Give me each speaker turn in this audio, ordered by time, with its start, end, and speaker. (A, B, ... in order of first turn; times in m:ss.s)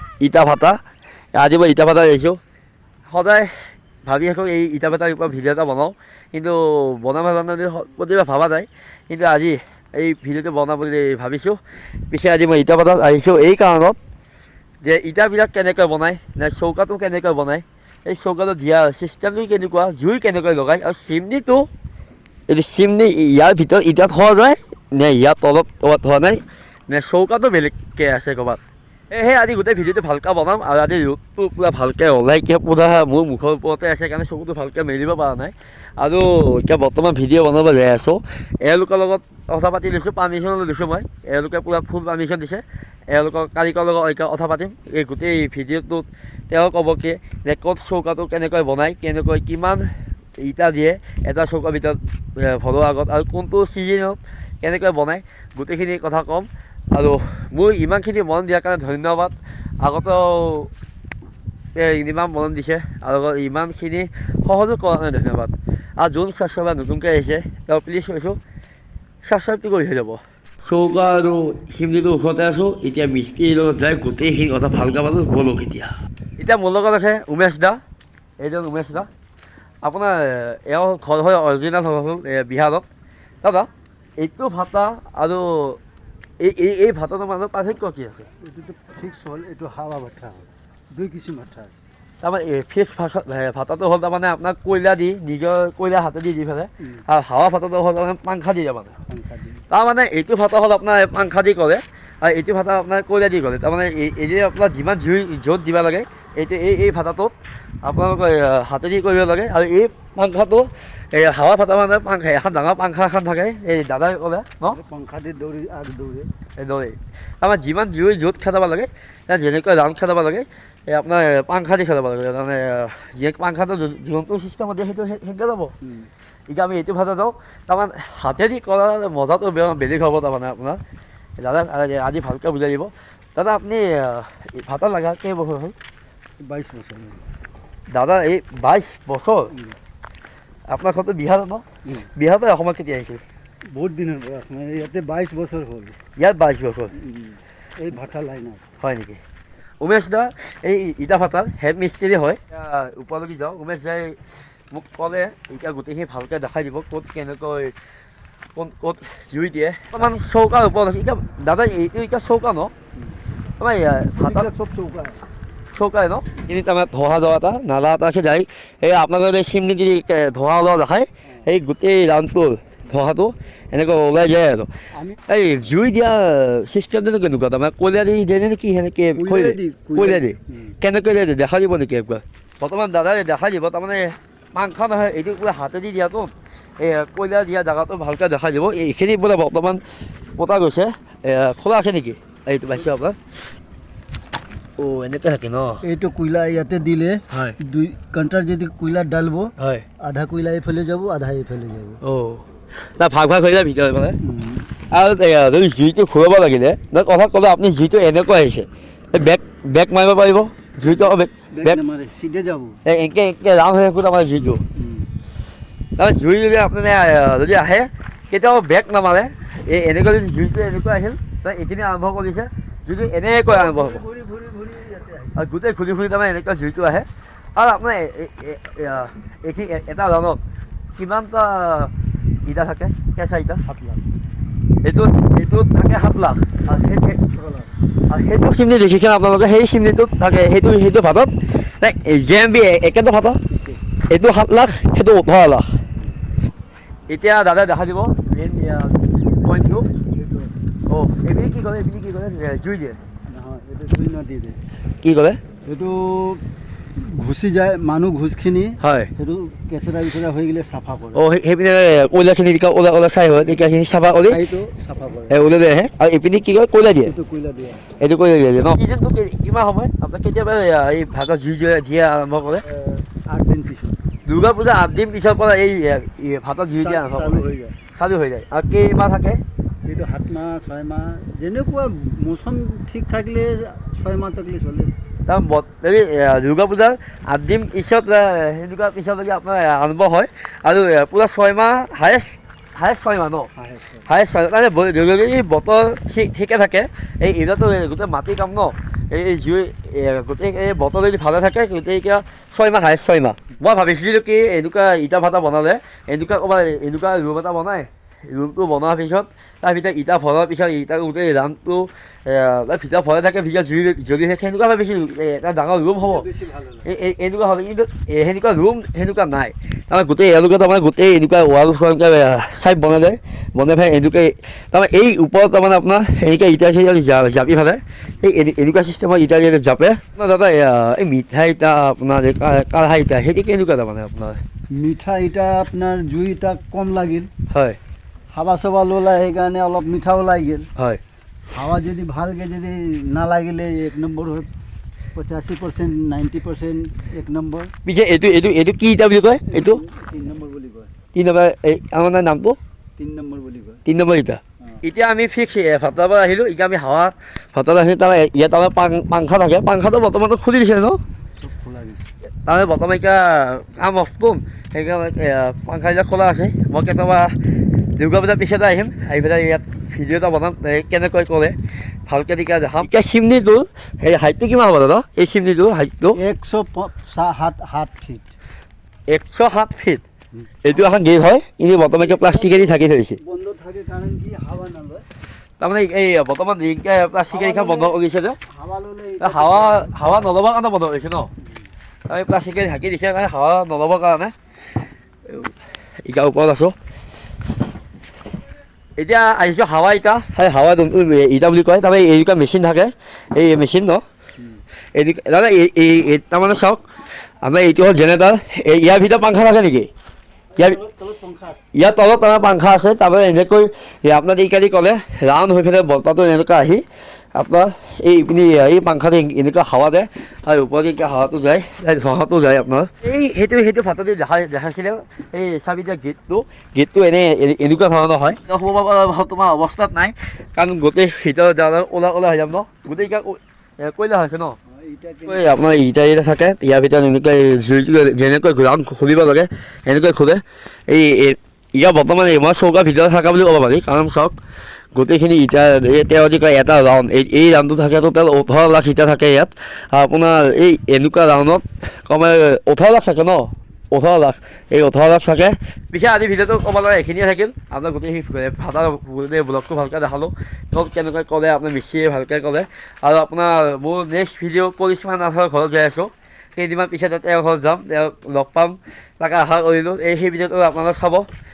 0:00.2-0:00.8 A
0:01.3-0:02.4 A
0:03.0-0:03.5 A
0:04.0-0:14.0 A
0:14.8-0:21.7 A
0:22.5-1:00.7 A
1:01.7-1:08.4 A
1:09.2-1:17.8 A
1:18.4-1:19.1 A
1:19.8-1:22.9 A
1:23.4-1:25.8 A
1:26.4-1:28.3 A
1:28.4-1:31.8 B
1:32.2-1:39.0 A
1:39.1-1:39.6 B
1:39.7-1:54.8 A
1:54.6-1:56.3 B
1:56.6-2:05.7 A
2:05.8-2:06.1 B
2:06.5-2:10.8 A
2:11.4-2:15.7 A
2:16.4-2:17.2 B
2:17.9-2:19.5 A
2:20.7-2:23.2 A
2:23.7-2:26.0 B
2:26.2-2:26.9 A
2:26.9-2:28.6 B
2:28.8-2:29.2 A
2:29.8-2:34.2 A
2:34.7-2:37.7 A
2:38.6-2:42.7 A
2:43.6-2:44.5 A
2:44.2-2:45.2 B
2:45.7-2:54.7 A
2:54.9-2:55.2 B
2:55.3-3:09.8 A
2:59.2-3:00.7 B
3:10.4-3:13.2 A
3:14.8-3:15.8 A
3:15.8-3:22.0 B
3:17.3-3:17.6 A
3:19.6-3:19.8 A
3:22.0-3:24.2 A
3:24.2-3:24.7 B
3:24.9-3:31.8 A
3:30.8-3:32.8 B
3:32.8-3:34.6 A
3:34.7-3:35.1 B
3:36.0-3:44.0 A
3:43.4-3:45.4 B
3:45.3-3:50.4 A
3:51.0-3:51.9 A
3:52.4-3:53.6 A
3:53.6-3:54.0 B
3:54.8-3:56.8 A
3:56.7-3:57.7 B
3:58.1-4:03.4 A
4:03.5-4:03.8 B
4:04.1-4:05.8 A
4:07.1-4:09.9 A
4:09.9-4:10.6 B
4:10.9-4:13.0 A
4:13.3-4:14.6 B
4:15.0-4:15.4 A
4:15.6-4:16.4 B
4:17.0-4:21.2 B
4:18.8-4:19.1 A
4:21.1-4:24.4 A
4:24.3-4:25.4 B
4:25.3-4:27.1 A
4:27.0-4:27.8 B
4:28.0-4:32.6 A
4:32.6-4:34.0 B
4:34.2-4:37.4 A
4:36.8-4:37.8 B
4:37.9-4:39.4 A
4:39.8-4:44.9 B
4:45.2-4:53.5 A
4:53.5-4:54.1 B
4:54.0-5:16.3 A
5:16.0-5:16.9 B
5:16.8-5:34.4 A
5:34.7-5:37.3 B
5:37.5-5:37.8 A
5:38.3-5:40.7 B
5:40.8-5:41.0 A
5:41.5-5:44.5 B
5:45.1-5:47.7 B
5:47.8-5:49.8 A
5:49.5-5:50.9 B
5:51.1-5:52.6 A
5:53.0-5:53.8 B
5:53.8-6:01.0 A
6:01.4-6:02.1 B
6:02.4-6:07.3 A
6:08.0-6:11.6 A
6:12.1-6:16.2 A
6:16.2-6:18.3 B
6:19.1-6:20.0 A
6:20.6-6:23.2 A
6:21.9-6:25.0 B
6:25.6-6:28.4 A
6:27.3-6:30.2 B
6:29.2-6:31.3 A
6:31.4-6:31.7 B
6:32.1-6:34.3 A
6:35.2-6:36.7 A
6:39.0-6:44.0 A
6:44.9-6:46.8 A
6:47.4-6:49.9 A
6:50.5-6:51.7 B
6:51.7-6:56.8 A
6:57.3-7:14.6 A
7:14.7-7:15.6 B
7:15.3-7:24.4 A
7:24.9-7:51.3 A